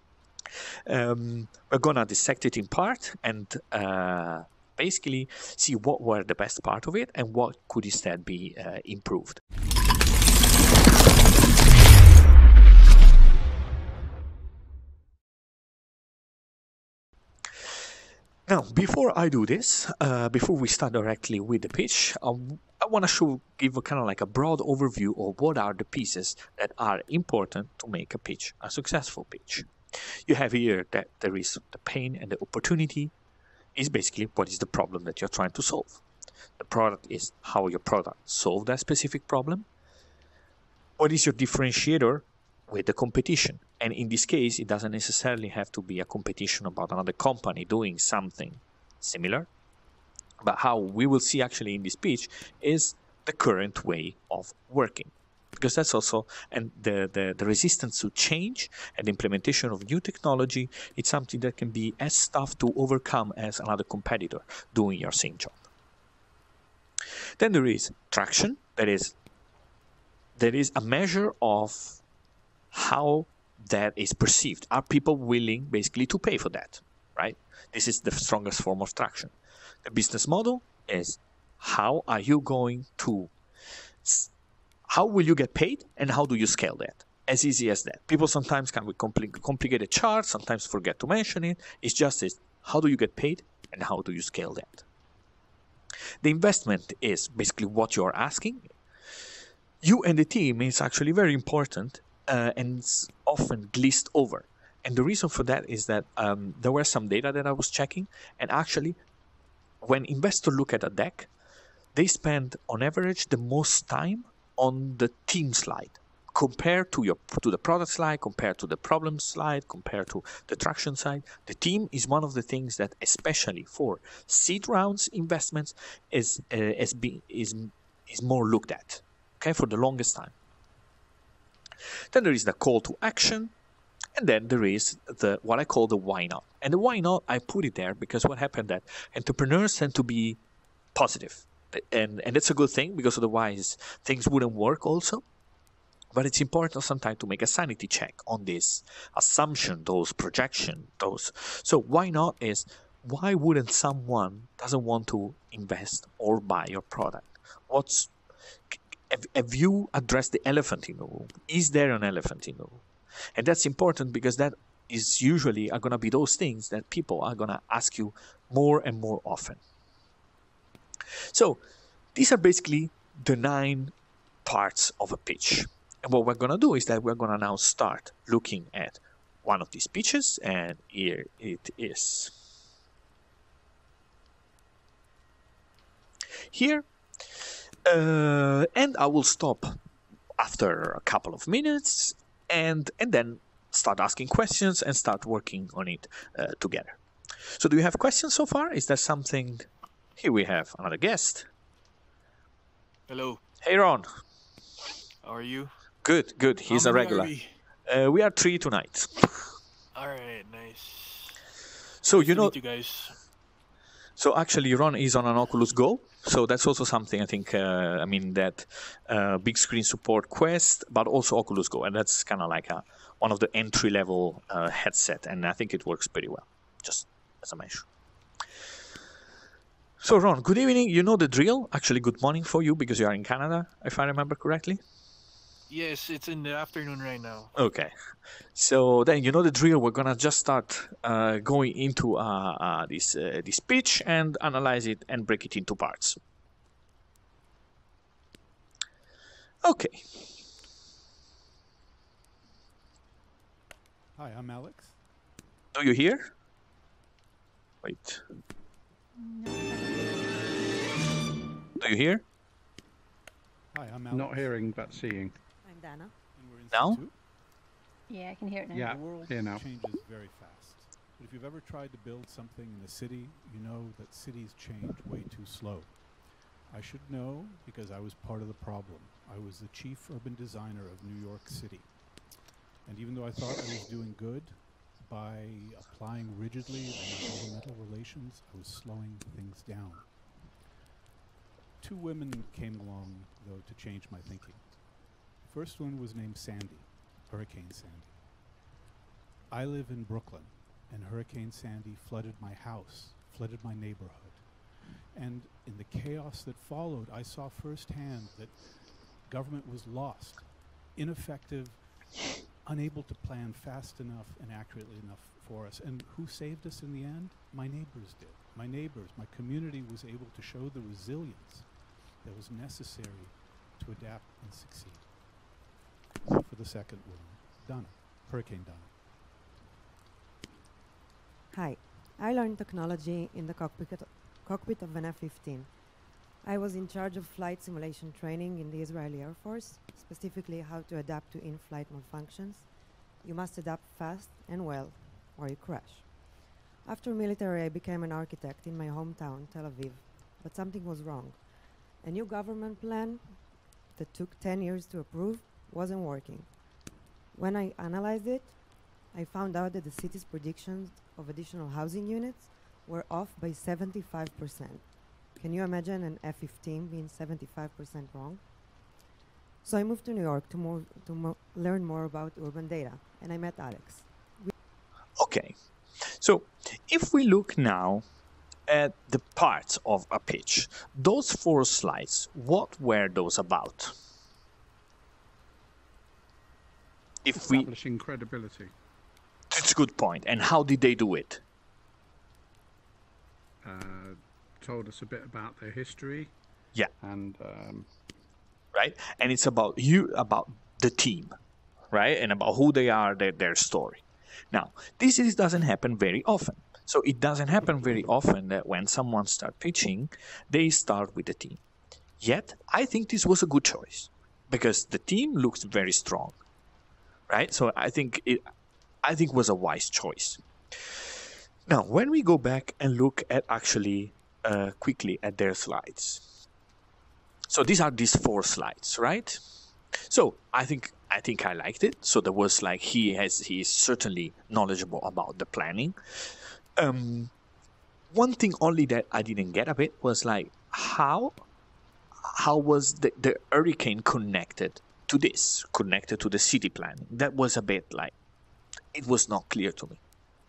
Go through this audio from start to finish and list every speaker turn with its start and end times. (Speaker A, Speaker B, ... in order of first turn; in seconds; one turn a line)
Speaker A: 0.9-9.4
Speaker A: 18.5-33.1
Speaker A: 33.8-36.0
Speaker A: 36.6-39.7
Speaker A: 41.0-49.5
Speaker A: 50.4-65.7
Speaker A: 67.4-69.1
Speaker A: 70.4-72.0
Speaker A: 72.7-79.3
Speaker A: 79.8-83.3
Speaker A: 84.0-84.3
Speaker A: 84.9-94.8
Speaker A: 96.2-98.7
Speaker A: 99.8-109.0
Speaker A: 109.8-111.3
Speaker A: 111.9-130.3
Speaker A: 132.1-133.5
Speaker A: 134.2-140.4
Speaker A: 140.9-145.2
Speaker A: 146.1-158.1
Speaker A: 158.7-169.6
Speaker A: 171.3-171.6
Speaker A: 172.2-173.9
Speaker A: 174.4-182.4
Speaker A: 186.5-189.8
Speaker A: 190.4-201.5
Speaker B: 203.1-203.4
Speaker A: 203.6-204.1
Speaker B: 205.2-205.7
Speaker A: 206.0-207.3
Speaker B: 206.7-207.6
Speaker A: 207.9-209.5
Speaker B: 209.9-211.4
Speaker A: 212.0-212.6
Speaker B: 212.1-213.2
Speaker A: 214.2-227.8
Speaker A: 230.0-234.8
Speaker B: 235.7-237.5
Speaker A: 237.6-237.9
Speaker A: 238.6-246.2
Speaker A: 249.6-250.4
Speaker C: 254.1-255.0
Speaker A: 255.7-256.3
Speaker A: 257.8-258.2
Speaker D: 259.2-260.5
Speaker A: 261.8-262.2
Speaker C: 263.7-265.1
Speaker E: 264.1-265.4
Speaker F: 265.6-266.1
Speaker C: 266.4-267.1
Speaker A: 266.7-267.0
Speaker D: 268.1-269.1
Speaker E: 268.7-269.6
Speaker C: 268.9-290.2
Speaker C: 291.8-298.2
Speaker C: 299.5-325.1
Speaker C: 326.3-328.9
Speaker F: 331.5-335.7
Speaker F: 336.4-342.7
Speaker F: 343.2-346.2
Speaker F: 346.8-356.6
Speaker F: 357.3-368.4
Speaker F: 369.6-374.5
Speaker A: 375.2-375.6
Speaker A: 376.1-378.1
Speaker A: 378.7-383.9
Speaker A: 387.2-387.7
Speaker E: 387.3-388.7
Speaker A: 389.5-391.4
Speaker E: 393.6-396.3
Speaker E: 397.0-397.9
Speaker A: 398.7-401.3
Speaker A: 401.9-411.6
Speaker A: 412.2-416.4
Speaker A: 417.3-418.4
Speaker A: 419.0-420.4
Speaker A: 421.7-426.3
Speaker A: 427.5-429.4
Speaker A: 430.1-437.3
Speaker A: 438.1-441.4
Speaker A: 442.2-448.1
Speaker A: 448.9-450.0